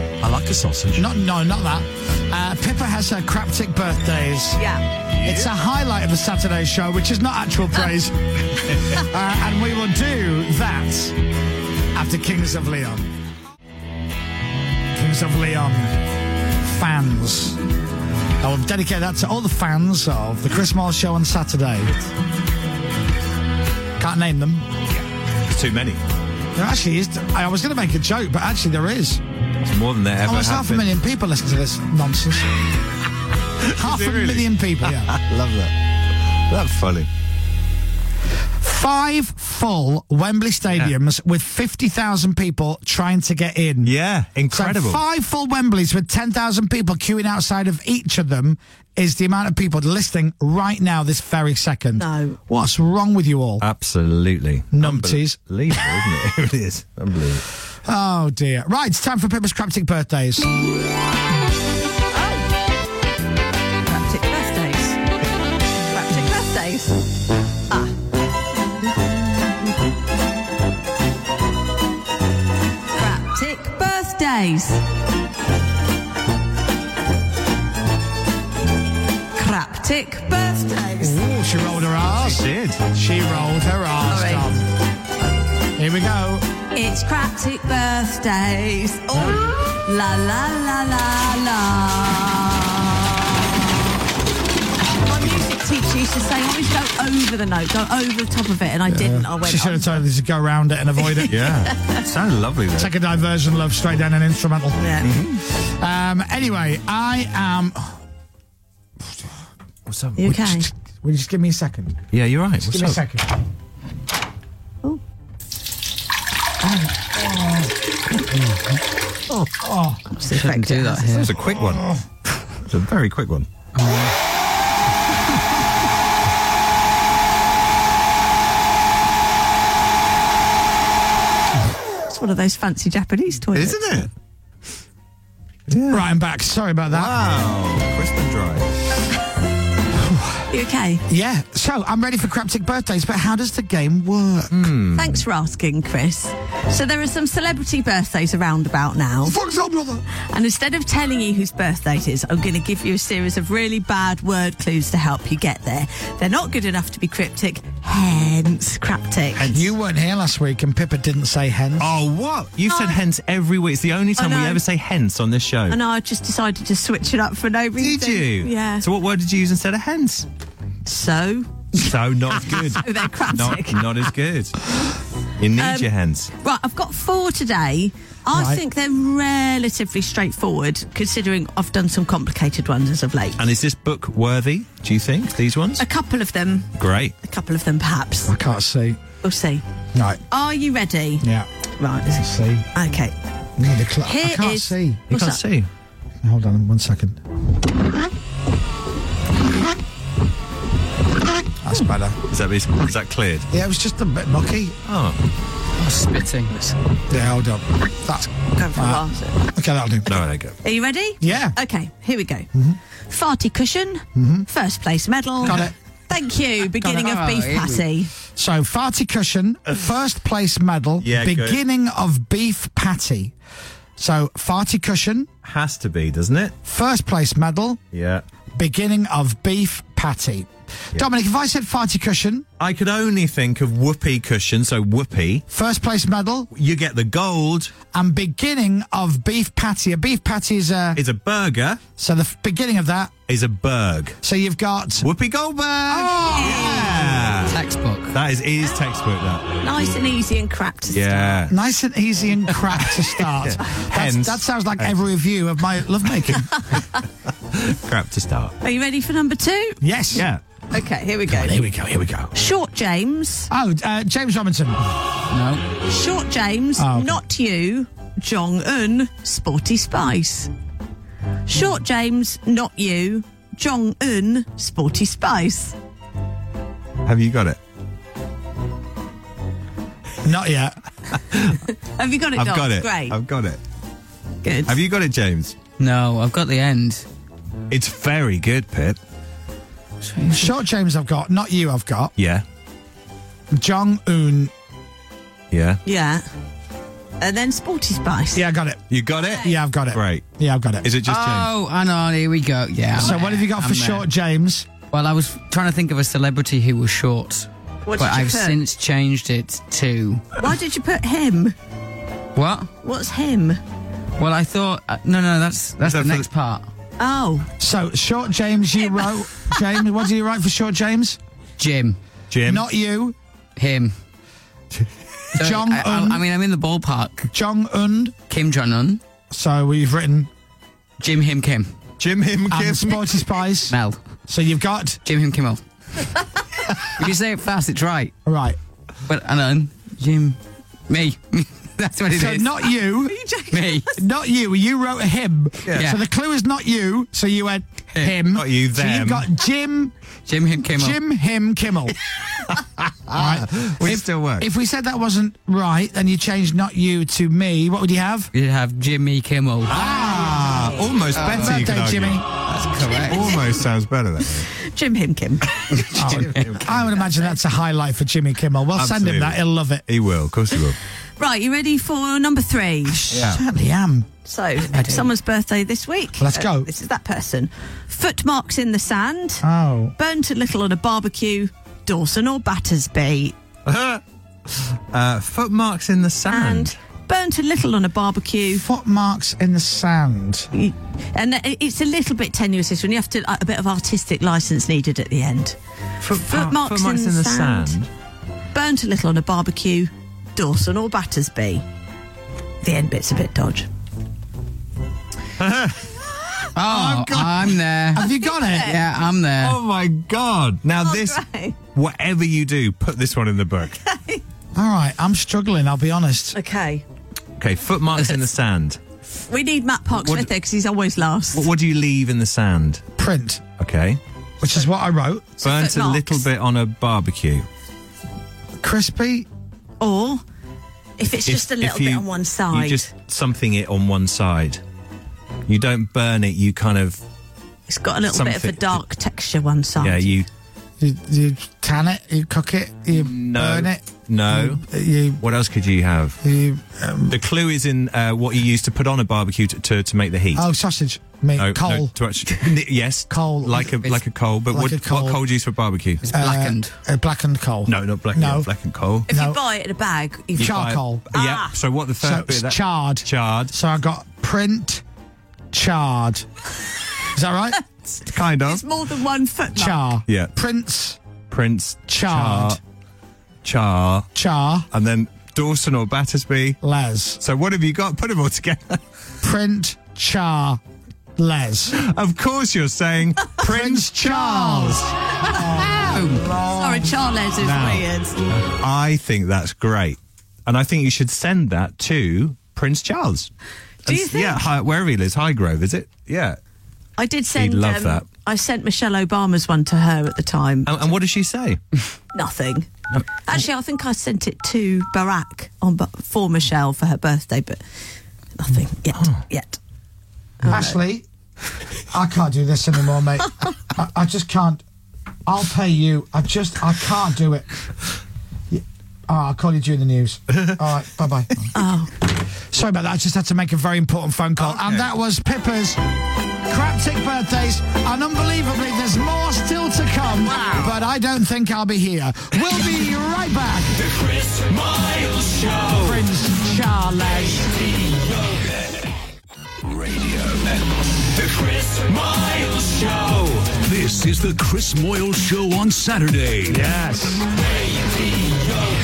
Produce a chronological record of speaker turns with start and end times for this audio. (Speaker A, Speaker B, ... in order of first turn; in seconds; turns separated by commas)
Speaker A: 0.2-1.0, Speaker B: 0.9-4.6, Speaker C: 4.6-4.8, Speaker A: 5.1-5.5, Speaker B: 5.2-8.2, Speaker B: 8.9-11.2, Speaker B: 11.9-13.1, Speaker B: 14.9-15.9, Speaker B: 16.6-17.6, Speaker B: 18.4-21.9, Speaker B: 24.0-24.7, Speaker A: 25.5-26.0, Speaker B: 26.5-29.2, Speaker A: 29.6-30.9, Speaker B: 30.2-32.5, Speaker A: 33.6-35.7, Speaker B: 33.7-35.1, Speaker A: 36.5-37.1, Speaker B: 38.6-43.9, Speaker A: 43.8-45.0, Speaker B: 44.5-53.6, Speaker C: 52.0-52.4, Speaker A: 53.6-57.4, Speaker B: 54.7-55.4, Speaker B: 57.9-60.5, Speaker C: 62.1-62.4, Speaker C: 63.8-65.0, Speaker C: 65.9-67.0, Speaker C: 72.9-74.8, Speaker C: 79.3-81.2, Speaker B: 81.0-84.6, Speaker A: 82.1-82.8, Speaker C: 84.1-84.5, Speaker B: 85.8-86.4, Speaker C: 86.7-93.7, Speaker B: 89.1-89.4, Speaker C: 95.0-100.0, Speaker B: 98.9-101.4, Speaker C: 101.1-102.0, Speaker A: 101.3-102.9, Speaker B: 102.8-104.8, Speaker C: 104.8-105.1, Speaker A: 105.0-105.4, Speaker B: 105.5-108.0, Speaker A: 109.8-110.3, Speaker C: 110.2-110.7, Speaker B: 110.3-112.0, Speaker A: 112.1-113.0, Speaker B: 112.6-113.3, Speaker B: 116.6-117.7, Speaker B: 119.6-120.0, Speaker C: 120.2-121.0, Speaker D: 120.2-121.3, Speaker A: 121.0-121.8, Speaker B: 121.5-122.0, Speaker A: 122.6-123.5, Speaker D: 123.7-124.1, Speaker C: 132.1-133.8, Speaker A: 133.5-134.1, Speaker A: 135.7-136.0, Speaker B: 135.9-137.1, Speaker A: 136.9-138.7, Speaker B: 139.9-140.4, Speaker C: 140.5-141.0, Speaker B: 141.1-144.7, Speaker A: 144.5-145.2, Speaker C: 144.9-149.4, Speaker B: 149.2-150.0, Speaker C: 150.3-159.7, Speaker B: 159.4-162.0, Speaker A: 161.8-165.8, Speaker C: 162.7-163.0, Speaker C: 164.2-164.6, Speaker C: 165.7-168.8, Speaker A: 167.8-170.3, Speaker C: 170.8-171.7, Speaker A: 171.7-174.6, Speaker C: 172.7-173.8, Speaker A: 175.4-176.3, Speaker C: 175.6-183.4, Speaker B: 178.3-178.6, Speaker A: 183.4-185.8, Speaker C: 185.8-188.3, Speaker A: 186.8-187.1, Speaker B: 188.3-189.0, Speaker C: 189.2-189.6, Speaker B: 189.9-190.2, Speaker C: 190.3-191.2, Speaker B: 191.2-191.5, Speaker C: 191.8-193.2, Speaker B: 192.1-192.7, Speaker B: 193.6-195.1, Speaker C: 194.0-195.4, Speaker A: 195.1-195.7, Speaker B: 196.2-197.2, Speaker B: 201.6-202.2, Speaker A: 202.3-203.5, Speaker B: 203.5-204.8, Speaker A: 204.8-205.2, Speaker D: 205.8-206.7, Speaker B: 207.1-210.2, Speaker C: 208.4-209.4, Speaker A: 210.1-210.6, Speaker C: 210.6-212.5, Speaker B: 211.2-211.6, Speaker B: 212.5-212.8, Speaker C: 213.1-218.1, Speaker B: 214.1-214.5, Speaker B: 215.4-215.7, Speaker D: 216.8-217.8, Speaker B: 218.3-223.3, Speaker A: 221.0-221.6, Speaker B: 224.0-225.3, Speaker A: 225.4-226.5, Speaker B: 226.6-227.8, Speaker A: 227.9-228.2, Speaker B: 228.6-232.5, Speaker A: 232.6-235.4, Speaker B: 235.5-236.5, Speaker A: 236.5-237.7, Speaker B: 237.9-241.0, Speaker A: 240.9-241.8, Speaker B: 242.0-243.1, Speaker A: 243.3-244.2, Speaker B: 244.2-245.1, Speaker A: 245.0-247.6, Speaker B: 245.9-246.6, Speaker C: 246.2-246.9, Speaker D: 247.4-248.1, Speaker A: 248.1-249.4, Speaker C: 249.6-251.4, Speaker A: 250.9-251.6, Speaker B: 251.5-256.5, Speaker A: 253.3-254.9, Speaker A: 257.5-258.6, Speaker C: 258.6-259.8, Speaker B: 259.8-260.3, Speaker A: 260.1-260.4, Speaker C: 260.7-261.6, Speaker B: 261.3-262.3, Speaker C: 262.3-263.5, Speaker B: 263.5-264.8, Speaker D: 265.3-265.6, Speaker C: 265.9-270.5, Speaker B: 266.8-267.2, Speaker C: 271.5-275.7, Speaker A: 277.0-277.6, Speaker B: 280.2-280.7, Speaker A: 281.3-281.6, Speaker C: 282.0-283.1, Speaker A: 282.4-283.6, Speaker C: 284.4-284.8, Speaker A: 284.7-285.6, Speaker D: 285.8-287.0, Speaker A: 287.7-289.0, Speaker D: 290.0-290.5, Speaker B: 290.3-292.1, Speaker A: 292.2-292.4, Speaker B: 293.5-294.5, Speaker A: 295.5-295.8, Speaker C: 295.8-296.2, Speaker C: 297.2-298.4, Speaker B: 298.3-300.9, Speaker A: 298.9-300.2, Speaker A: 300.8-301.5, Speaker D: 301.0-304.1, Speaker B: 303.0-304.7, Speaker D: 304.9-310.2, Speaker C: 307.8-308.6, Speaker C: 310.4-311.5, Speaker D: 312.4-312.7, Speaker C: 312.8-313.6, Speaker D: 314.2-316.7, Speaker A: 315.8-316.3, Speaker C: 317.0-317.5, Speaker B: 317.6-321.2, Speaker D: 321.6-322.0, Speaker A: 322.3-322.6, Speaker B: 322.4-323.1, Speaker D: 323.6-323.9, Speaker B: 325.3-326.2, Speaker D: 325.4-327.3, Speaker B: 327.3-328.1, Speaker D: 328.3-329.0, Speaker B: 329.3-330.3, Speaker D: 331.0-331.7, Speaker A: 332.0-333.2, Speaker B: 332.5-333.8, Speaker D: 333.7-334.0, Speaker B: 334.3-335.0, Speaker D: 335.0-335.6, Speaker D: 337.0-338.1, Speaker B: 338.2-338.6, Speaker D: 339.1-342.5, Speaker B: 342.1-343.2, Speaker C: 343.0-344.0, Speaker D: 343.5-343.9, Speaker B: 343.9-349.9, Speaker A: 345.6-345.9, Speaker D: 345.8-346.0, Speaker A: 348.3-349.3, Speaker D: 350.3-351.0, Speaker B: 350.7-351.9, Speaker A: 352.5-354.4, Speaker B: 353.1-358.3, Speaker D: 358.3-359.7, Speaker B: 359.7-360.7, Speaker A: 359.7-362.2, Speaker D: 361.1-361.7, Speaker B: 361.3-362.2, Speaker D: 362.4-363.3, Speaker A: 363.1-364.5, Speaker C: 364.5-365.6, Speaker D: 365.7-366.5, Speaker A: 365.9-366.9, Speaker B: 365.9-369.8, Speaker A: 368.8-370.8, Speaker C: 371.2-373.0, Speaker B: 372.9-374.1, Speaker A: 373.1-373.4, Speaker C: 374.2-379.4, Speaker B: 376.2-376.7, Speaker B: 379.4-379.9, Speaker C: 380.0-383.3, Speaker A: 383.6-386.7, Speaker C: 386.3-388.6, Speaker B: 388.5-390.5, Speaker C: 390.5-395.6, Speaker A: 396.0-397.9, Speaker C: 396.2-397.8, Speaker C: 398.5-401.6, Speaker C: 402.6-403.7, Speaker A: 405.4-405.8, Speaker D: 406.5-408.1, Speaker B: 406.7-408.8, Speaker C: 408.0-408.8, Speaker D: 408.6-409.6, Speaker A: 409.4-411.2, Speaker C: 410.8-411.6, Speaker A: 411.7-413.8, Speaker C: 413.8-414.2, Speaker B: 414.5-416.4, Speaker C: 416.3-416.8, Speaker A: 417.4-418.8, Speaker C: 419.2-421.5, Speaker A: 420.0-420.3, Speaker A: 421.3-422.8, Speaker B: 423.0-423.4, Speaker A: 423.6-424.0, Speaker B: 424.4-425.4, Speaker C: 425.4-426.2, Speaker A: 425.4-427.4, Speaker B: 428.6-429.3, Speaker C: 429.8-430.2, Speaker C: 431.0-432.9, Speaker A: 431.2-434.6, Speaker A: 435.5-437.0, Speaker C: 437.7-440.1, Speaker A: 438.1-438.8, Speaker A: 439.8-440.3, Speaker B: 440.8-445.2, Speaker A: 442.9-444.6, Speaker A: 445.2-446.2, Speaker B: 446.2-447.2, Speaker A: 447.1-450.4, Speaker B: 450.3-451.9, Speaker A: 451.4-456.0, Speaker B: 453.1-453.8, Speaker B: 454.5-455.2, Speaker D: 456.0-456.7, Speaker B: 456.1-458.5, Speaker A: 457.7-459.1, Speaker B: 459.1-459.4, Speaker C: 459.1-461.5, Speaker B: 460.4-461.1, Speaker A: 460.4-463.5, Speaker B: 462.0-464.8, Speaker B: 465.5-466.2, Speaker B: 467.1-467.6, Speaker A: 468.1-468.6, Speaker C: 468.4-469.8, Speaker B: 469.5-471.0, Speaker A: 471.3-472.6, Speaker B: 471.9-472.6, Speaker A: 473.4-474.1, Speaker B: 474.1-474.7, Speaker A: 474.7-476.6, Speaker B: 476.6-477.2, Speaker A: 477.2-478.8, Speaker B: 479.2-480.6, Speaker B: 481.2-481.8, Speaker A: 481.8-484.9, Speaker B: 483.4-486.9, Speaker D: 485.8-486.2, Speaker C: 486.5-488.2, Speaker A: 487.4-487.8, Speaker A: 488.5-493.3, Speaker A: 493.8-496.4, Speaker C: 493.9-494.4, Speaker C: 497.0-500.9, Speaker A: 497.3-498.0, Speaker A: 500.6-501.6, Speaker C: 502.1-502.7, Speaker C: 503.2-507.6, Speaker C: 508.4-509.6, Speaker C: 510.4-510.8, Speaker B: 510.4-511.0, Speaker B: 511.9-514.6, Speaker B: 515.2-517.5, Speaker B: 518.5-521.3, Speaker C: 521.5-521.9, Speaker B: 522.5-525.8, Speaker A: 524.4-524.8, Speaker B: 526.5-533.8, Speaker A: 530.4-530.7, Speaker B: 535.7-537.5, Speaker E: 539.7-540.6, Speaker E: 542.2-546.7, Speaker B: 546.5-547.2